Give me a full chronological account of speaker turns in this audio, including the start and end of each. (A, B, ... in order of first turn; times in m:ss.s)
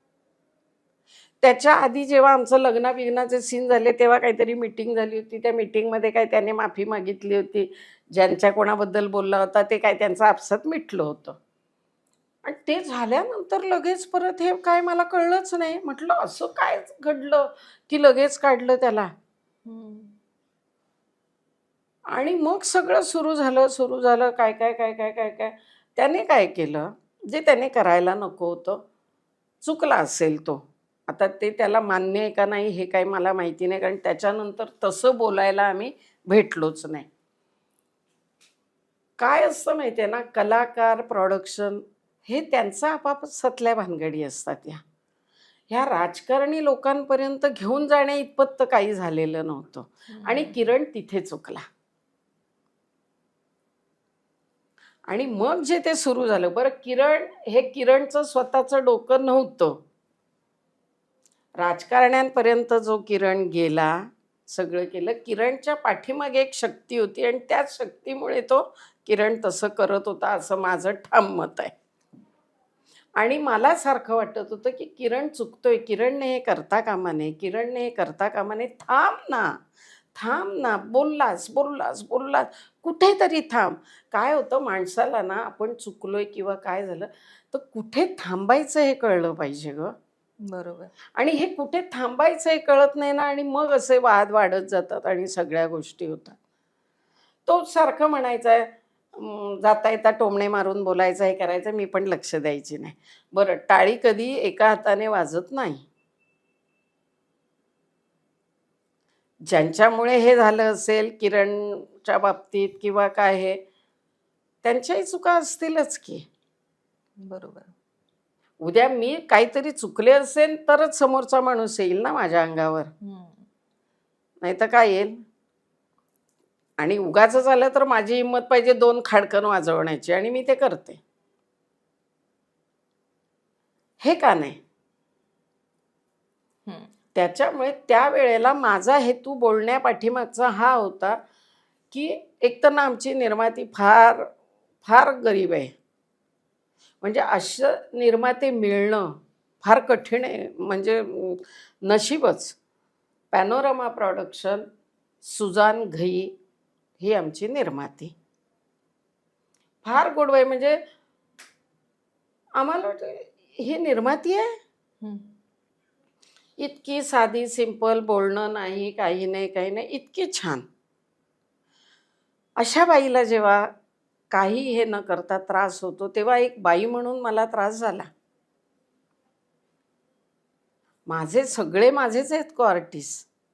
0:01.4-0:11.4 A
0:12.4-0:19.1 A
0:19.7-0:20.2 B
0:22.1-0:28.8 A
0:29.6-0:37.1 A
0:39.2-0:44.8 A
0:45.7-0:51.6 A
0:50.1-0:50.6 B
0:55.1-0:59.8 A
1:01.6-1:11.7 A
1:13.2-1:19.6 A
1:20.2-1:29.9 A
1:30.5-1:30.9 B
1:31.2-1:36.4 A
1:37.5-1:45.8 A
1:49.5-1:53.6 A
1:54.6-1:56.2 A
1:57.2-1:57.7 B
1:58.6-2:02.9 A
2:03.0-2:03.4 B
2:04.4-2:05.2 A
2:06.8-2:11.0 A
2:14.0-2:14.6 A
2:17.1-2:21.2 A
2:21.9-2:24.3 A
2:24.8-2:25.7 A
2:27.0-2:32.6 A
2:33.3-2:34.6 A
2:35.2-2:36.3 A
2:37.0-2:38.1 A
2:39.8-2:40.8 A
2:42.6-2:44.5 A
2:45.0-2:45.3 B
2:46.6-2:50.6 A
2:52.6-2:53.7 A
2:54.3-2:58.1 A
3:01.1-3:03.3 A